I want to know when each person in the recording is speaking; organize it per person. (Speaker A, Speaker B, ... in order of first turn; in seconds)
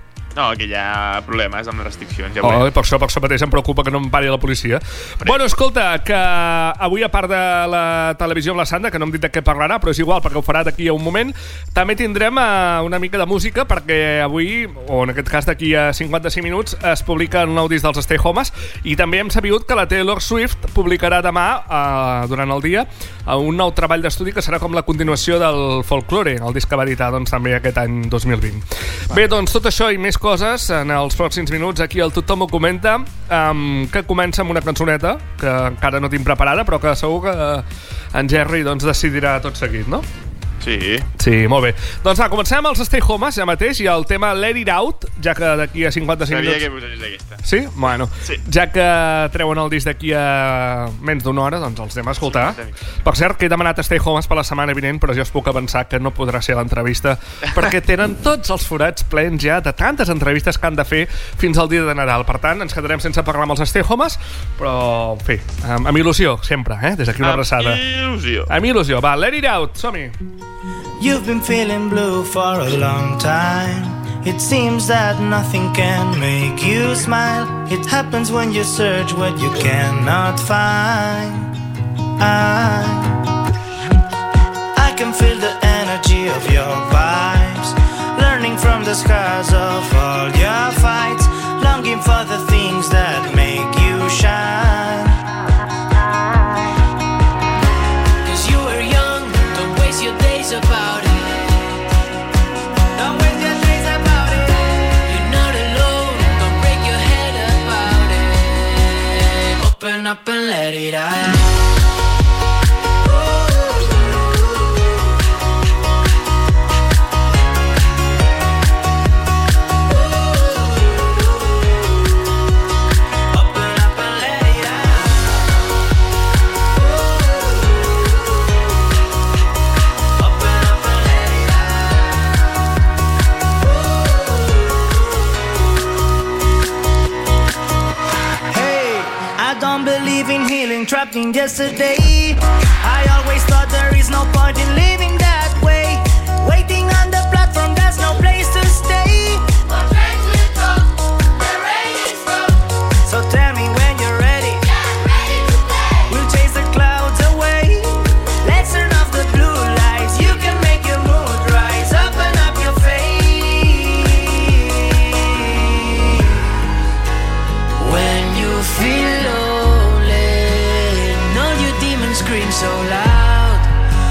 Speaker A: 0.3-2.7, 5.2-5.5, 40.6-41.1, 46.3-47.4, 52.2-52.7, 67.2-68.5
Speaker B: 2.4-40.0, 41.2-46.6, 47.4-67.8, 68.5-70.1
Speaker C: 71.0-81.5, 82.2-83.2, 84.7-95.2, 103.0-104.6, 123.3-125.1, 130.2-132.1, 133.7-134.2, 138.5-150.8, 151.4-152.5, 153.0-155.3, 156.1-164.8
Speaker D: 98.2-101.5, 105.0-111.3, 167.8-173.7